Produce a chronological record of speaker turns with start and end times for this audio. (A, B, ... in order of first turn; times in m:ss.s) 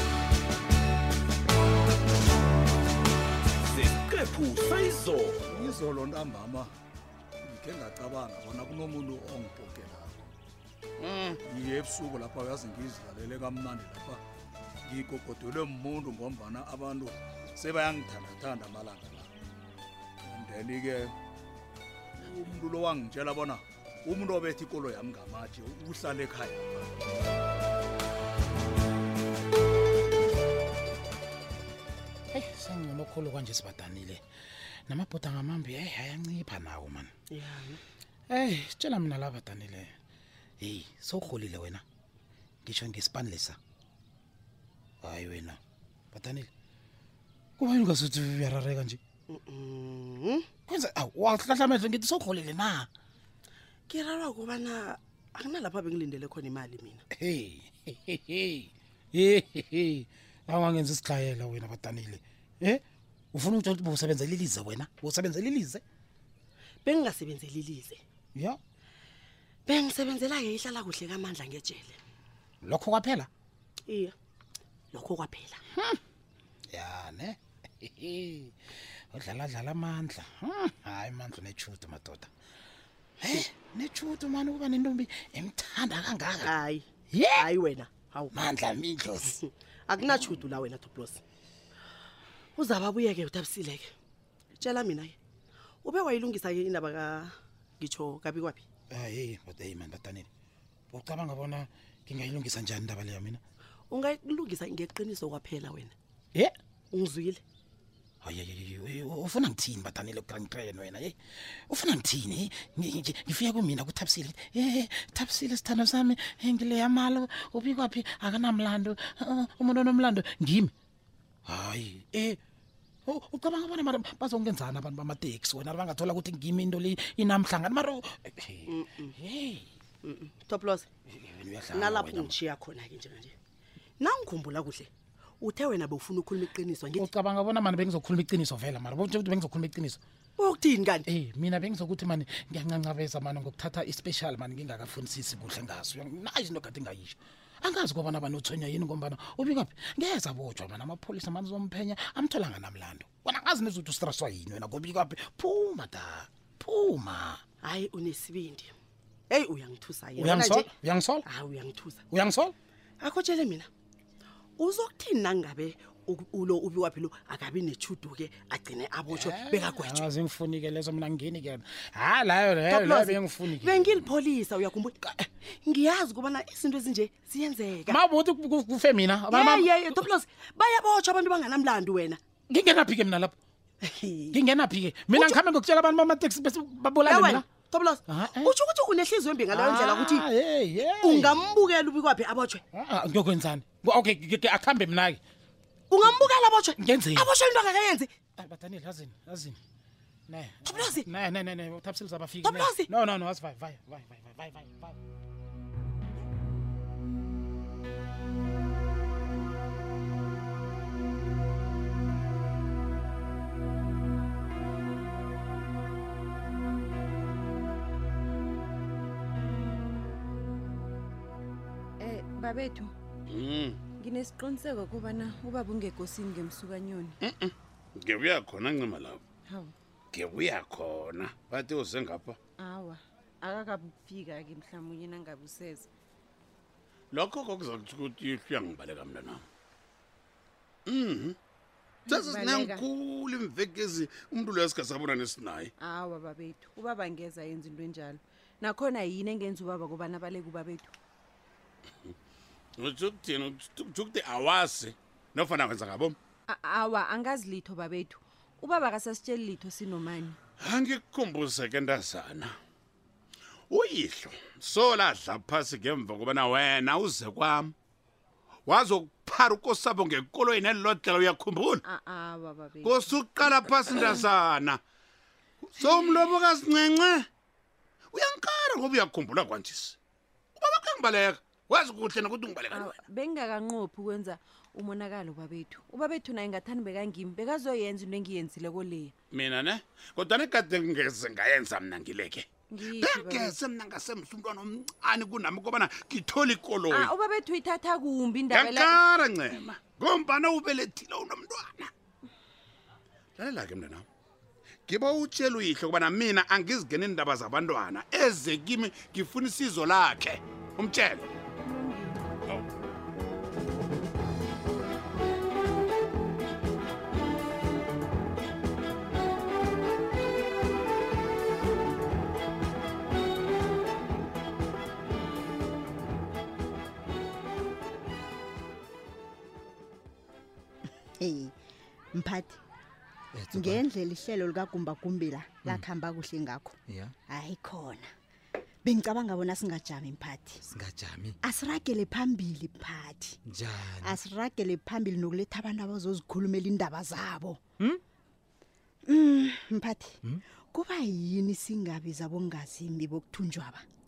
0:03.7-0:05.7 A
0:05.5-0:06.7 B
0:07.4-0:10.3 B
0:11.0-0:11.4 C
0:11.5-0:14.2 B
0:14.8-0:19.3 B
0:20.2-0:21.2 B
0:22.2-0:26.9 B
0:32.3-0:34.2 D
0:34.9-0:37.1 D
0:37.3-0:37.8 E
0:38.3-0:39.9 D
0:40.6-0:41.8 D
0:42.6-0:43.6 D
0:45.0-0:45.6 D
0:46.1-0:46.5 D
0:47.6-0:49.0 D
0:49.3-0:50.5 E
0:50.7-0:52.9 D
0:53.9-0:57.0 E
0:57.2-1:05.8 D
1:06.8-1:08.0 E
1:09.7-1:12.0 E
1:12.6-1:13.3 D
1:13.9-1:14.1 E
1:14.9-1:15.6 E
1:16.7-1:18.5 D
1:19.1-1:22.3 D
1:23.2-1:26.5 D
1:26.4-1:28.3 E
1:27.2-1:27.4 D
1:28.3-1:29.3 D
1:29.3-1:31.2 E
1:32.6-1:33.9 E
1:34.6-1:35.2 E
1:35.8-1:38.6 E
1:38.9-1:40.3 D
1:40.9-1:43.4 D
1:43.9-1:45.9 E
1:46.9-1:47.4 E
1:48.2-1:51.2 D
1:51.7-2:00.7 D
2:01.5-2:02.4 D
2:03.1-2:09.7 D
2:08.7-2:09.1 E
2:10.0-2:10.9 E
2:11.2-2:12.3 D
2:11.7-2:13.4 E
2:14.0-2:14.9 E
2:15.4-2:17.1 E
2:17.0-2:20.0 D
2:20.4-2:21.1 E
2:21.1-2:37.4 D
2:37.6-2:38.7 E
2:39.3-2:40.7 E
2:40.2-2:41.2 D
2:41.3-2:42.0 E
2:42.1-2:42.6 D
2:43.0-2:43.7 E
2:44.6-2:50.1 E
2:49.2-2:53.9 D
2:52.7-2:58.0 E
2:57.9-3:00.0 D
2:59.3-3:02.2 E
3:02.5-3:03.4 D
3:03.8-3:04.4 E
3:04.3-3:07.4 D
3:05.1-3:05.4 E
3:07.0-3:10.3 E
3:08.1-3:08.5 D
3:09.6-3:11.3 D
3:10.8-3:12.6 E
3:12.8-3:15.2 D
3:15.9-3:18.1 E
3:16.8-3:17.3 D
3:18.4-3:19.6 D
3:20.3-3:25.0 D
3:20.6-3:21.1 E
3:22.4-3:22.9 E
3:42.0-3:42.9 F
3:43.3-3:43.8 C
3:44.0-3:47.2 F
3:47.2-3:49.2 C
3:49.5-3:49.7 F
3:50.1-3:52.4 C
3:52.6-3:55.9 F
3:57.1-3:59.4 C
4:00.9-4:01.4 C
4:02.1-4:02.8 F
4:02.1-4:05.7 C
4:05.8-4:10.9 F
4:12.8-4:16.2 C
4:16.5-4:20.4 F
4:20.6-4:22.6 C
4:23.7-4:27.7 C
4:28.7-4:31.8 C
4:31.8-4:33.5 F
4:32.8-4:34.8 C
4:35.6-4:37.3 C
4:38.1-4:40.0 C
4:40.6-4:43.0 C
4:42.7-4:49.1 F
4:49.3-4:57.1 C
4:52.7-4:53.6 F
4:56.9-4:59.0 F
4:58.5-5:01.9 C
5:03.4-5:04.0 C
5:04.9-5:11.3 C
5:11.6-5:12.2 F
5:31.2-5:31.5 G
5:32.2-5:32.6 G
5:33.3-5:33.9 H
5:33.5-5:36.8 G
5:36.9-5:37.2 H
5:37.3-5:38.1 G
5:38.8-5:40.6 G
5:40.6-5:41.4 H
5:41.4-5:43.4 G
5:43.4-5:44.2 H
5:44.0-5:47.6 G
5:49.1-5:50.2 G
5:50.7-5:53.8 G